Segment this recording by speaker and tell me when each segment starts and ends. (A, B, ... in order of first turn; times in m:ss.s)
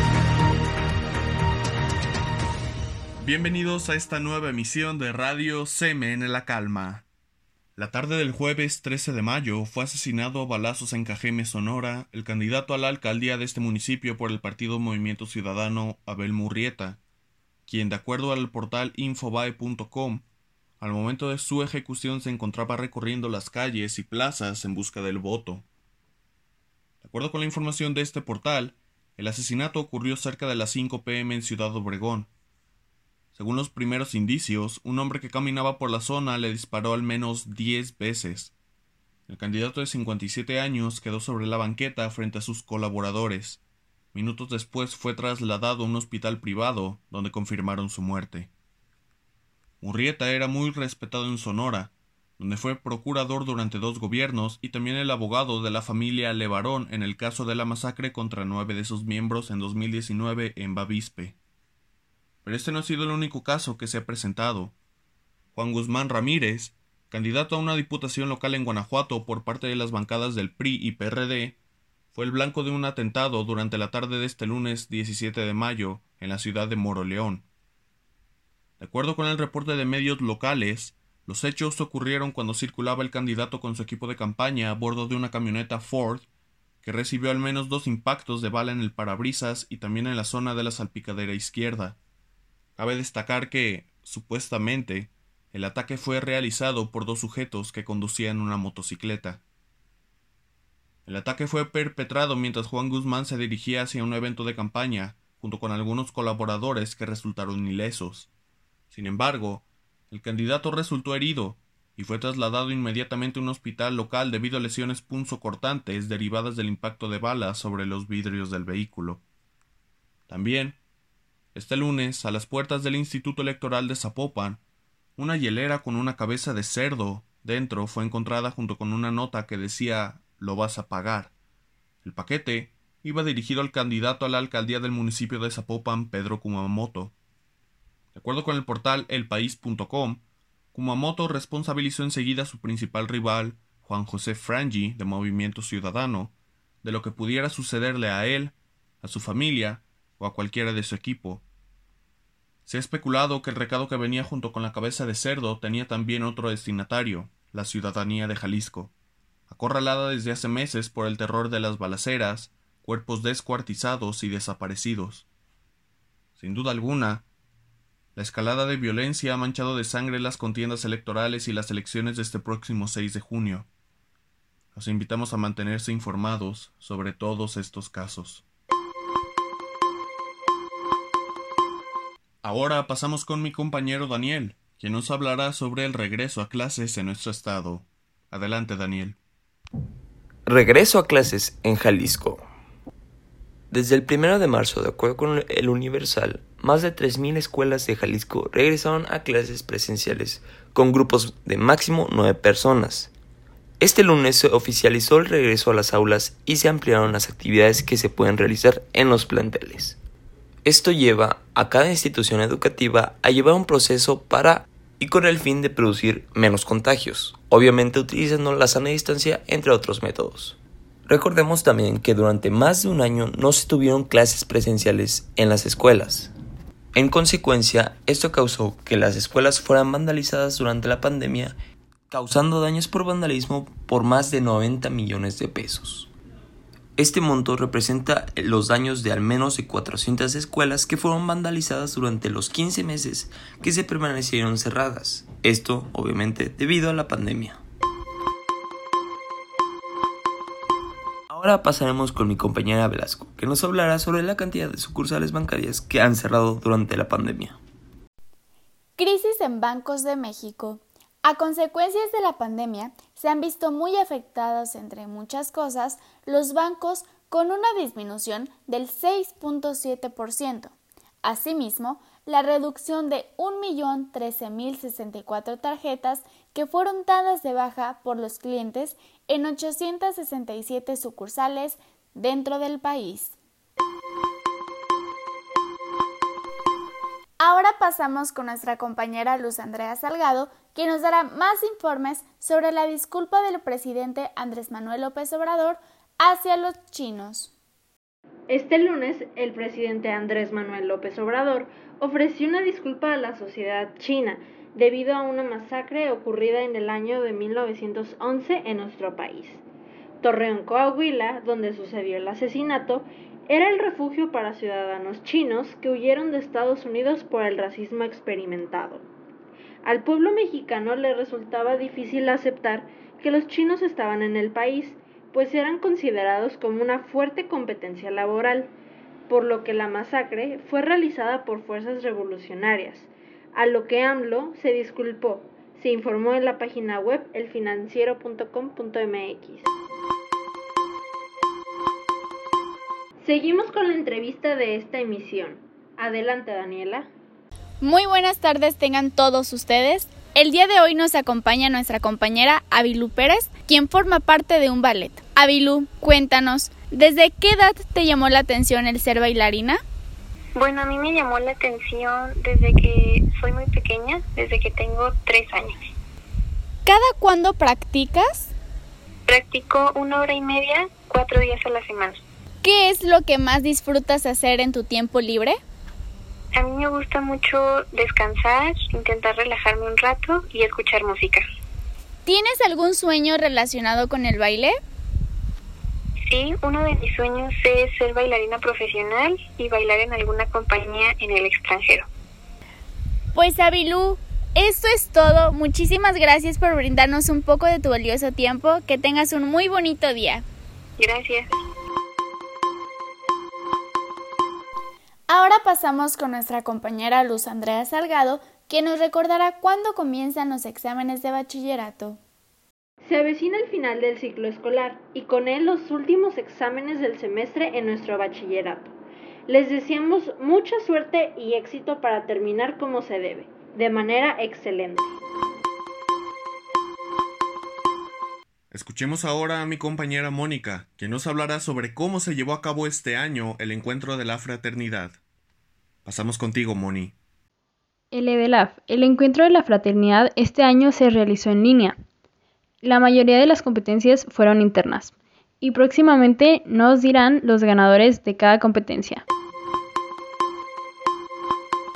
0:03.2-0:07.1 A
0:07.8-0:17.0 A
0:17.7-0:20.2 A
0:20.8-0:25.7 A
0:27.0-0:32.3 A
0:33.3-0:38.5 A
0:39.3-0:43.6 A
0:44.1-0:48.5 A
0:49.8-1:01.4 A
1:02.4-1:04.8 A
1:05.5-1:11.6 A
1:12.1-1:17.5 A
1:18.8-1:26.3 A
1:26.8-1:32.0 A
1:32.8-1:39.4 A
1:41.1-1:48.3 A
1:48.9-1:59.2 A
2:00.3-2:00.8 A
2:01.6-2:04.6 A
2:05.2-2:11.3 A
2:12.0-2:17.1 A
2:18.1-2:20.2 A
2:20.7-2:31.4 A
2:32.7-2:38.9 A
2:39.5-2:45.3 A
2:46.4-2:47.3 A
2:48.2-2:53.7 A
2:54.7-2:58.4 A
3:02.4-3:09.2 A
3:10.5-3:12.5 B
3:13.7-3:23.1 B
3:23.8-3:30.0 B
3:30.6-3:46.3 B
3:47.0-3:51.6 B
3:52.1-3:56.1 B
3:57.0-4:07.6 B
4:11.3-4:17.6 B
4:19.0-4:43.3 C
4:47.4-4:57.5 C
4:58.5-5:09.6 D
5:10.2-5:19.1 D
5:19.8-5:28.7 D
5:29.3-5:39.7 D
5:43.2-5:47.1 D
5:47.8-5:59.8 C
6:00.6-6:05.7 E
6:06.9-6:08.5 C
6:09.3-6:12.1 E
6:12.6-6:15.6 C
6:16.6-6:21.4 E
6:22.3-6:24.8 C
6:26.3-6:32.0 E
6:33.3-6:40.4 C
6:41.1-6:41.4 E
6:45.3-6:52.2 C
6:53.0-6:58.9 D
6:59.5-7:05.2 D
7:08.7-7:15.2 A
7:16.0-7:17.2 A
7:18.1-7:22.0 F
7:22.8-7:29.2 F